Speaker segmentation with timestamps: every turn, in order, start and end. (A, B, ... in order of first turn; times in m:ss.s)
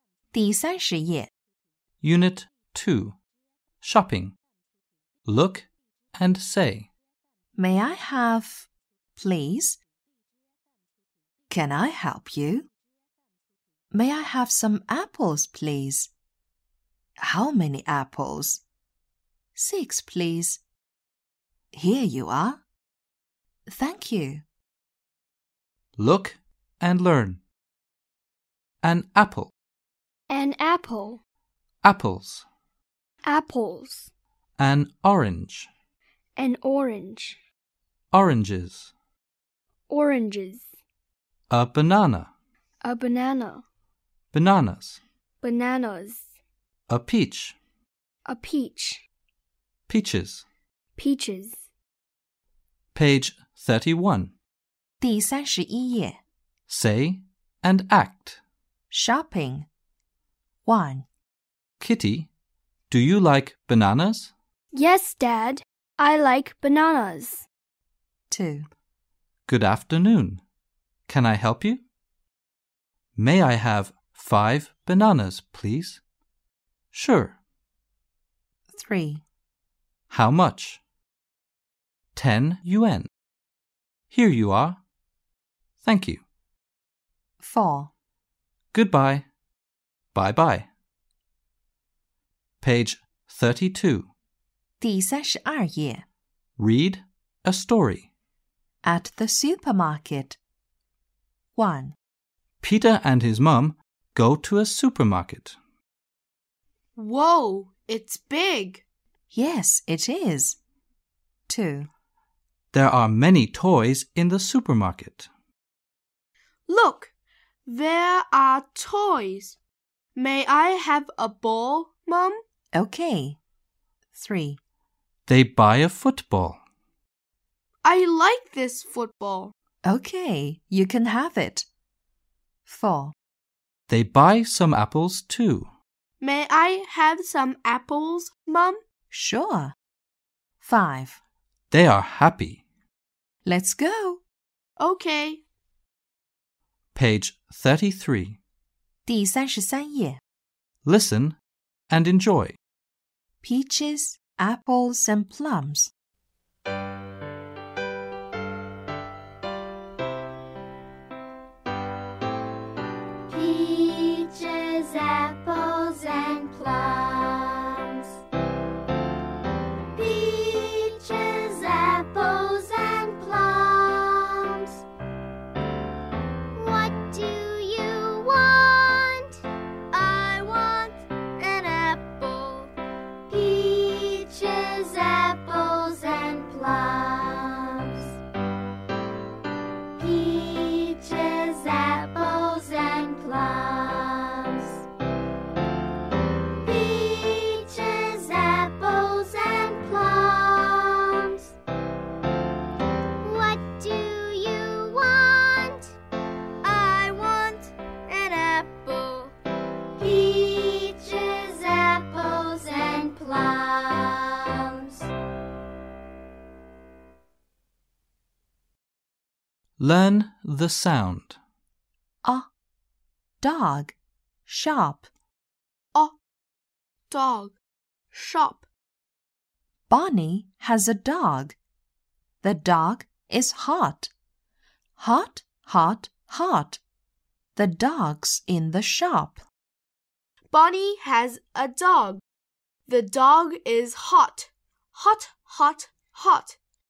0:00.3-0:01.3 A
0:02.0-0:03.2 B
0:03.8-0:04.4 B
0:05.3-0:06.9 B
0:07.6-0:09.8 A
0:11.5-0:12.7 A
0:13.9-0:16.1 A
0:17.2-0:18.6 A
0:19.6-0:20.6 A
0:21.7-0:22.6 A
0:23.7-0:24.4 A
0:26.0-0:27.4 B
0:28.8-0:29.5 B
0:30.3-0:31.2 C
0:30.3-0:31.2 D
0:31.8-0:32.5 B
0:33.3-0:34.0 C
0:33.3-0:34.1 D
0:34.6-0:35.7 B
0:36.4-0:37.4 C
0:36.4-0:37.2 D
0:38.1-0:38.9 B
0:39.9-0:40.6 D
0:39.9-0:40.6 C
0:41.5-0:42.3 B
0:42.9-0:43.6 D
0:42.9-0:43.6 C
0:44.3-0:45.0 B
0:45.4-0:46.1 C
0:45.5-0:46.2 D
0:46.9-0:47.6 B
0:48.3-0:48.9 D
0:48.3-0:49.0 C
0:49.9-0:50.5 B
0:51.0-0:51.3 D
0:51.0-0:51.5 C
0:53.0-0:54.3 B
0:55.0-0:56.2 A
0:56.7-0:58.4 B
0:58.9-0:59.7 A
1:00.6-1:01.1 A
1:01.8-1:02.3 B
1:02.9-1:04.3 B
1:04.7-1:07.4 C
1:08.3-1:08.7 A
1:09.5-1:10.4 B
1:11.1-1:11.8 B
1:13.2-1:16.0 B
1:16.9-1:17.4 B
1:18.7-1:19.2 A
1:20.1-1:20.8 B
1:22.2-1:23.1 B
1:24.1-1:24.8 B
1:25.8-1:26.2 B
1:27.4-1:27.9 A
1:28.7-1:29.3 B
1:30.1-1:30.7 B
1:32.6-1:34.1 B
1:34.8-1:36.0 A
1:36.6-1:38.1 B
1:38.8-1:40.4 A
1:41.6-1:42.0 A
1:42.6-1:45.6 B
1:47.0-1:48.8 E
1:49.3-1:50.6 A
1:51.5-1:51.9 A
1:52.7-1:55.3 B
1:56.7-1:57.1 E
1:57.7-1:59.6 E
2:00.2-2:02.4 E
2:02.7-2:03.4 A
2:04.1-2:04.6 A
2:05.3-2:06.6 B
2:07.8-2:09.5 E
2:09.8-2:11.7 A
2:12.7-2:13.2 A
2:13.9-2:15.7 B
2:16.2-2:18.8 E
2:19.1-2:19.8 A
2:20.6-2:21.2 A
2:21.7-2:22.6 B
2:23.4-2:24.2 A
2:24.8-2:25.4 E
2:27.0-2:28.4 B
2:29.1-2:30.2 A
2:30.8-2:31.4 B
2:31.9-2:32.6 B
2:33.4-2:35.9 A
2:43.3-2:48.1 D
2:49.9-2:54.8 D
2:56.5-2:59.4 D
2:59.9-3:02.7 D
3:03.3-3:08.2 D
3:10.0-3:14.9 D
3:16.6-3:21.5 D
3:23.2-3:25.9 D
3:26.6-3:29.3 D
3:30.0-3:35.1 D
3:39.8-3:41.4 B
3:42.2-3:42.5 A
3:43.4-3:44.0 A
3:44.5-3:45.1 A
3:47.1-3:47.6 E
3:48.1-3:48.7 E
3:49.9-3:51.6 A
3:52.4-3:54.1 A
3:55.0-3:56.8 A
3:57.6-3:59.4 A
4:00.5-4:02.2 E
4:02.9-4:06.6 E